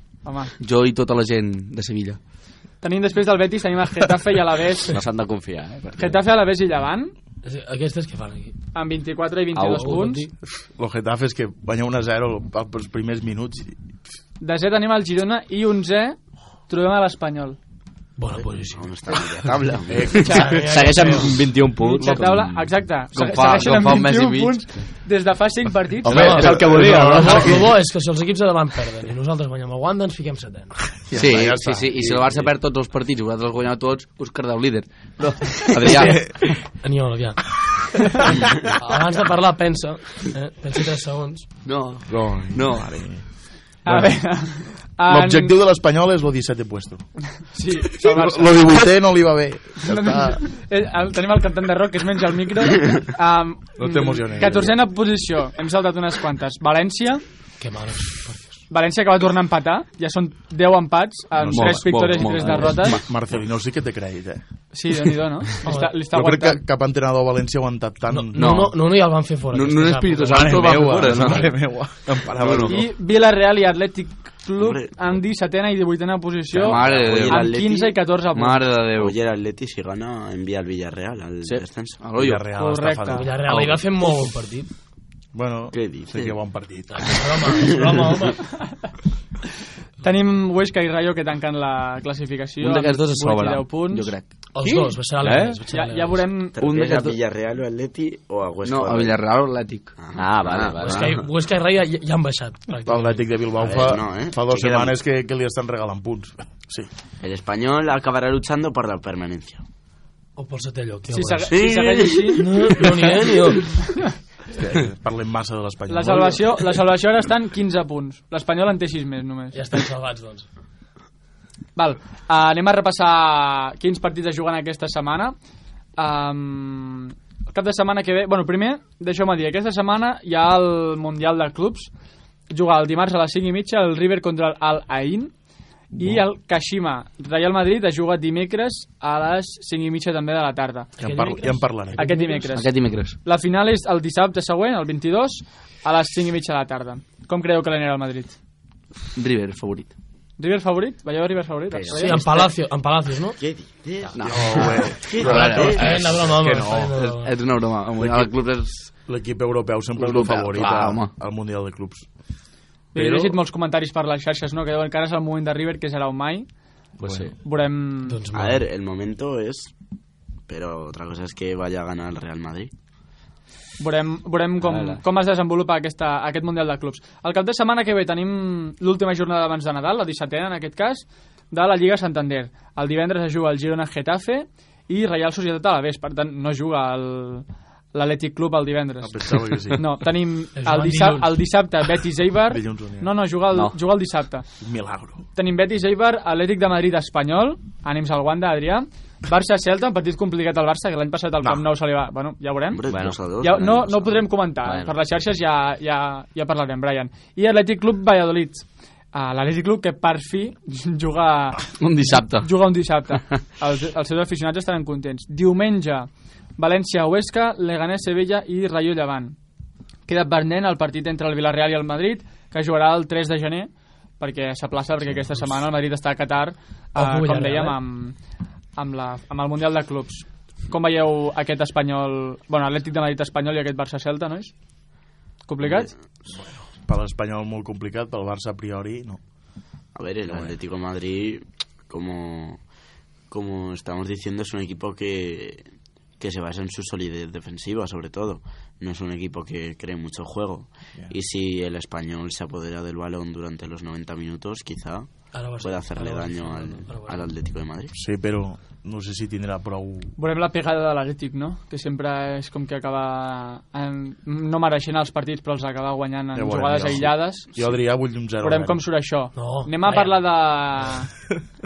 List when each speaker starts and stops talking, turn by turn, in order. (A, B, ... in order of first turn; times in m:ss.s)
0:00.2-0:00.5 A
0:00.5-0:02.2 B
0:02.8-0:05.0 A
0:04.9-0:06.2 C
0:05.9-0:07.1 A
0:07.4-0:08.6 D
0:08.7-0:10.3 A
0:09.5-0:10.2 C
0:09.8-0:10.3 D
0:10.6-0:13.8 E
0:14.4-0:17.6 A
0:18.2-0:18.9 D
0:18.6-0:20.3 F
0:19.9-0:20.5 E
0:20.2-0:22.8 C
0:20.2-0:21.5 D
0:21.8-0:26.5 A
0:23.1-0:24.6 B
0:26.0-0:27.7 E
0:26.1-0:27.6 C
0:26.1-0:30.9 D
0:31.0-0:32.5 E
0:31.1-0:36.5 B
0:35.8-0:36.5 E
0:36.0-0:37.6 D
0:38.8-0:41.5 D
0:41.6-0:43.0 B
0:42.1-0:47.2 E
0:43.8-0:45.6 A
0:47.4-0:48.9 A
0:48.0-0:50.5 E
0:49.8-0:57.2 A
0:53.8-0:54.8 E
0:57.6-0:58.6 D
0:58.7-1:03.0 A
1:01.4-1:01.9 E
1:01.4-1:03.0 B
1:02.4-1:02.8 C
1:02.5-1:05.0 E
1:04.7-1:06.6 A
1:05.6-1:06.0 D
1:06.1-1:08.5 E
1:08.1-1:11.0 D
1:08.3-1:11.6 B
1:10.3-1:12.9 E
1:11.1-1:11.4 C
1:12.2-1:12.7 B
1:12.7-1:18.7 A
1:14.6-1:15.2 F
1:16.5-1:17.5 B
1:16.6-1:17.2 E
1:16.8-1:18.0 F
1:18.3-1:19.1 B
1:18.9-1:22.0 F
1:22.0-1:22.4 B
1:22.1-1:23.3 E
1:22.5-1:23.4 A
1:23.1-1:24.7 D
1:23.4-1:23.8 B
1:25.3-1:27.2 E
1:25.7-1:26.4 F
1:27.0-1:28.5 D
1:27.5-1:28.1 F
1:30.0-1:34.1 A
1:32.6-1:34.3 B
1:34.5-1:36.3 D
1:34.6-1:34.9 A
1:35.2-1:35.6 C
1:35.7-1:36.6 A
1:36.5-1:39.2 F
1:36.6-1:37.2 B
1:38.6-1:39.9 B
1:40.0-1:41.2 F
1:40.1-1:41.2 C
1:40.8-1:43.4 D
1:42.8-1:46.9 E
1:43.6-1:44.9 F
1:47.2-1:49.6 F
1:50.4-1:51.5 D
1:51.1-1:52.5 A
1:51.5-1:53.2 F
1:52.3-1:53.9 D
1:54.6-1:56.7 E
1:55.9-1:59.6 A
1:59.5-2:00.4 D
2:01.8-2:05.3 A
2:06.0-2:11.9 A
2:12.5-2:15.3 A
2:15.9-2:20.9 A
2:15.9-2:16.2 E
2:21.0-2:22.6 D
2:21.0-2:22.1 E
2:22.0-2:28.4 A
2:22.5-2:23.2 B
2:29.1-2:29.9 B
2:30.4-2:32.4 A
2:31.7-2:32.5 F
2:31.9-2:33.4 D
2:33.4-2:35.9 F
2:34.1-2:36.0 B
2:34.3-2:36.9 E
2:35.5-2:37.4 D
2:36.9-2:38.9 B
2:38.0-2:38.3 E
2:39.0-2:42.1 E
2:40.0-2:41.1 B
2:42.9-2:46.5 A
2:42.9-2:43.4 E
2:47.0-2:47.3 E
2:47.0-2:47.3 C
2:47.4-2:48.2 A
2:48.0-2:48.7 D
2:48.3-2:49.7 F
2:50.5-2:52.7 F
2:53.8-3:14.4 A
2:54.6-2:55.0 C
3:09.0-3:09.8 E
3:10.5-3:11.4 D
3:12.5-3:13.1 E
3:14.6-3:15.2 E
3:15.3-3:22.8 A
3:21.4-3:21.7 E
3:22.7-3:24.3 F
3:22.9-3:23.2 C
3:23.4-3:39.4 A
3:24.6-3:24.9 C
3:31.8-3:32.5 B
3:40.1-3:48.2 A
3:46.9-3:47.8 D
3:48.8-3:54.5 A
3:55.4-3:55.9 A
3:55.6-3:55.9 F
3:56.3-3:59.2 E
3:59.9-4:02.6 F
4:00.3-4:00.6 E
4:03.3-4:05.6 F
4:06.2-4:18.0 F
4:15.3-4:17.3 D
4:17.9-4:20.1 E
4:20.2-4:27.7 A
4:26.3-4:28.8 E
4:28.4-4:31.2 A
4:29.3-4:30.3 D